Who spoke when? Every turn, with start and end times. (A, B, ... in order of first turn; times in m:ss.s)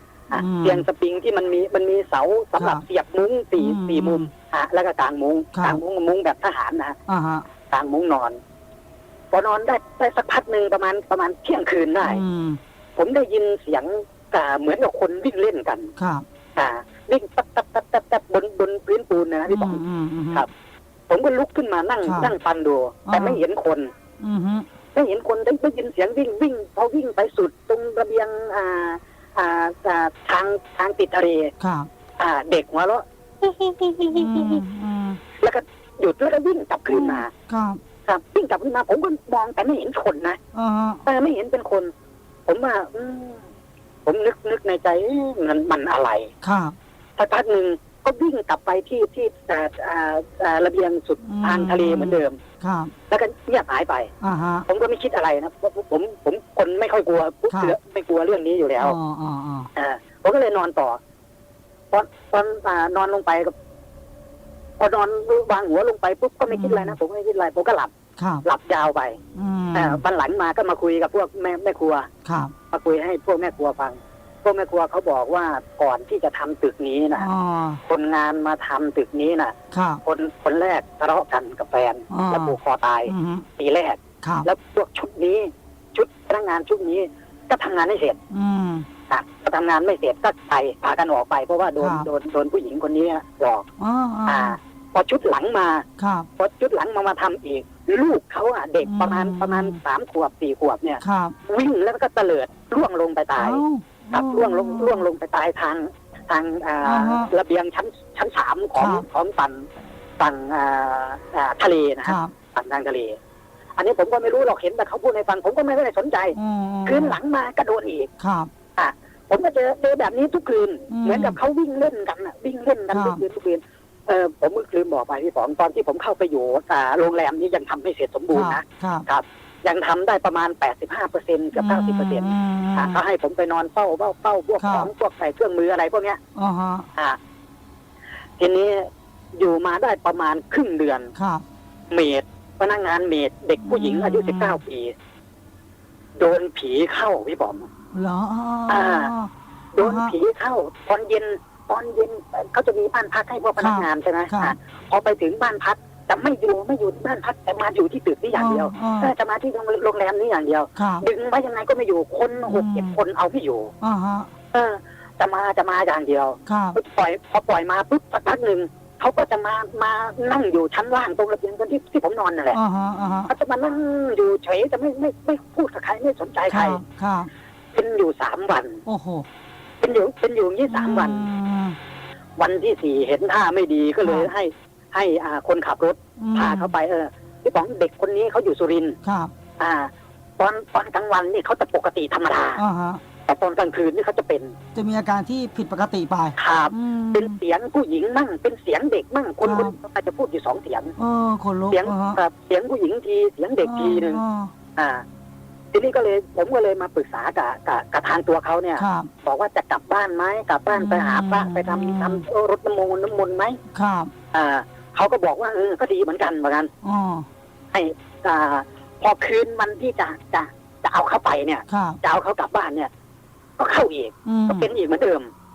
0:00.3-0:07.0 A
0:00.3-0:00.8 B
0:02.6-0:02.8 B
0:03.6-0:04.3 B
0:05.5-0:05.8 B
0:07.1-0:07.4 B
0:07.7-0:08.4 A
0:09.3-0:12.2 A
0:12.0-0:12.6 B
0:13.0-0:15.9 A
0:16.0-0:16.2 B
0:16.6-0:19.8 A
0:19.5-0:20.5 B
0:21.1-0:23.9 A
0:22.0-0:22.3 B
0:23.1-0:23.4 B
0:24.2-0:24.7 B
0:25.0-0:31.5 A
0:31.6-0:31.9 B
0:32.2-0:34.6 A
0:34.1-0:35.2 B
0:35.4-0:37.3 A
0:36.9-0:37.8 B
0:38.1-0:40.4 A
0:40.5-0:41.0 B
0:41.0-0:41.9 A
0:42.5-0:43.4 A
0:44.0-0:46.3 A
0:46.4-0:46.8 B
0:47.2-0:52.4 A
0:51.2-0:52.9 B
0:53.1-0:54.1 A
0:54.2-0:54.6 B
0:54.7-0:59.0 A
0:57.5-0:57.8 B
0:58.8-0:59.7 B
0:59.8-1:01.0 A
1:01.9-1:03.5 A
1:04.8-1:07.9 A
1:06.5-1:07.0 B
1:08.2-1:08.5 B
1:08.4-1:09.2 A
1:09.4-1:10.0 B
1:09.7-1:12.1 A
1:12.2-1:12.5 B
1:12.7-1:17.3 A
1:17.2-1:17.8 B
1:17.8-1:28.2 A
1:19.7-1:20.0 B
1:22.1-1:23.5 B
1:24.2-1:24.5 B
1:28.3-1:28.9 B
1:29.1-1:33.7 A
1:31.8-1:32.1 B
1:33.8-1:34.6 B
1:34.3-1:35.9 A
1:36.0-1:36.3 B
1:36.4-1:49.7 A
1:38.8-1:39.8 B
1:41.0-1:41.4 B
1:43.4-1:45.1 B
1:46.8-1:47.3 B
1:48.8-1:49.1 B
1:50.2-1:53.2 A
1:52.0-1:52.3 B
1:53.8-1:58.1 A
1:56.4-1:57.2 B
1:58.2-1:58.5 B
1:58.8-2:16.2 A
2:00.9-2:01.4 B
2:02.9-2:03.2 B
2:08.3-2:09.1 B
2:11.5-2:13.0 B
2:14.6-2:14.9 B
2:16.4-2:16.9 B
2:18.4-2:21.1 A
2:21.2-2:21.4 B
2:21.9-2:24.9 A
2:23.6-2:24.6 B
2:26.2-2:27.7 A
2:27.9-2:30.1 B
2:28.7-2:29.1 A
2:29.8-2:43.7 A
2:33.6-2:34.6 B
2:38.3-2:39.1 B
2:40.8-2:41.1 B
2:42.5-2:43.0 B
2:43.8-2:44.3 B
2:44.5-2:52.6 A
2:46.5-2:46.8 B
2:52.5-2:53.3 B
2:53.3-2:56.8 A
2:56.5-2:57.3 B
2:57.7-2:58.8 A
2:58.9-2:59.3 B
2:59.8-3:01.3 A
3:00.7-3:01.8 B
3:02.4-3:09.0 A
3:04.0-3:04.3 B
3:06.2-3:06.7 B
3:09.0-3:09.3 B
3:09.6-3:12.6 A
3:12.6-3:13.0 B
3:13.3-3:14.6 A
3:14.8-3:17.4 B
3:16.4-3:20.9 A
3:19.4-3:19.8 B
3:21.0-3:22.2 B
3:21.7-3:24.2 A
3:23.6-3:24.5 B
3:24.8-3:25.0 A
3:25.7-3:33.6 A
3:28.8-3:29.1 B
3:30.7-3:32.2 B
3:33.7-3:34.1 B
3:34.3-3:36.7 A
3:36.8-3:37.3 B
3:37.7-3:42.9 A
3:41.7-3:42.0 B
3:43.6-3:45.3 A
3:44.2-3:44.7 B